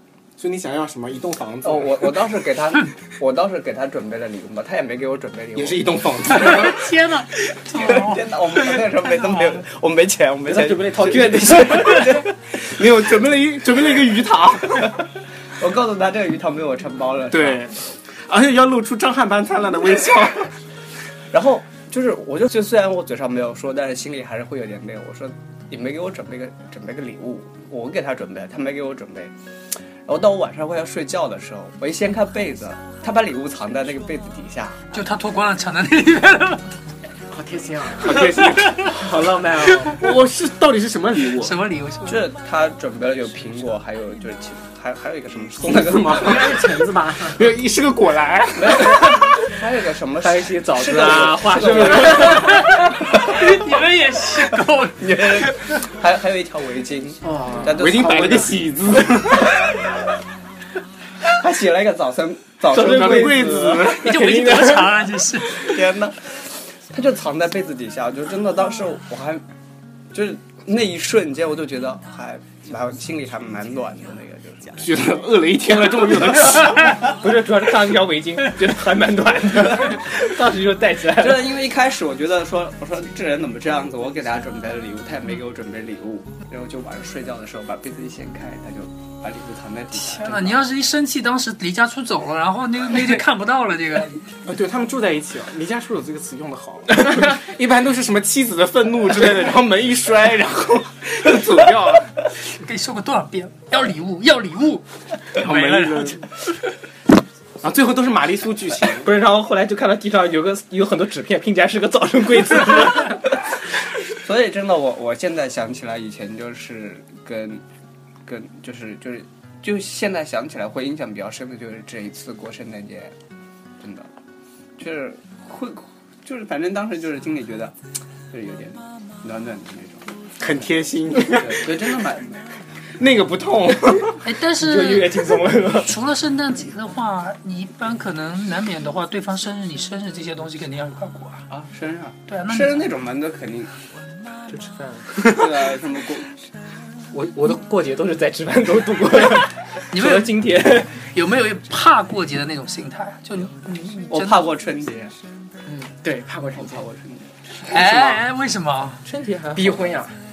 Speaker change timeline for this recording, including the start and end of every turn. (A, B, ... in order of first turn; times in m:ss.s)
0:00.4-0:02.2 A
0:01.6-0:05.8 B
0:05.6-0:06.9 A
0:06.3-0:08.2 C
0:07.7-0:13.0 B
0:10.5-0:12.1 D
0:11.4-0:12.2 A
0:12.7-0:14.9 A
0:13.7-0:14.1 B
0:14.7-0:15.0 B
0:15.6-0:17.6 B
0:17.3-0:20.5 A
0:21.3-0:29.3 B
0:30.1-0:34.8 B
0:34.9-0:36.7 C
0:37.3-0:38.2 E
0:37.9-0:41.6 A
0:38.4-0:38.9 C
0:39.3-0:39.8 D
0:41.4-0:42.3 C
0:42.1-0:46.6 B
0:45.6-0:49.5 A
0:46.0-0:47.6 E
0:48.6-0:53.4 B
0:50.2-0:52.6 D
0:51.5-0:52.2 A
0:52.3-0:55.0 C
0:55.0-0:58.6 B
0:57.2-0:58.4 E
0:57.7-0:59.7 A
1:01.3-1:04.0 B
1:02.7-1:04.9 A
1:04.0-1:05.6 C
1:04.2-1:04.6 D
1:05.5-1:06.4 B
1:06.9-1:09.4 B
1:10.1-1:14.8 B
1:14.8-1:17.0 A
1:17.0-1:21.6 D
1:21.1-1:30.6 B
1:30.0-1:34.2 C
1:34.4-1:42.1 A
1:42.5-1:44.8 C
1:45.4-1:46.2 C
1:45.4-1:46.2 A
1:47.6-1:49.1 A
1:49.0-1:53.2 D
1:54.2-1:57.6 B
1:58.2-2:03.1 B
2:03.8-2:04.1 B
2:04.8-2:07.7 B
2:08.3-2:10.1 B
2:10.4-2:11.7 A
2:11.2-2:12.5 B
2:13.0-2:14.3 A
2:14.2-2:21.4 C
2:14.6-2:15.9 D
2:21.5-2:23.7 B
2:22.3-2:22.9 C
2:24.5-2:25.4 D
2:25.2-2:26.3 B
2:27.1-2:30.9 D
2:29.9-2:30.4 C
2:31.0-2:34.5 C
2:34.1-2:35.2 B
2:35.6-2:36.8 E
2:36.6-2:37.3 B
2:37.7-2:38.2 E
2:37.7-2:39.0 C
2:39.0-2:39.8 D
2:39.5-2:40.2 E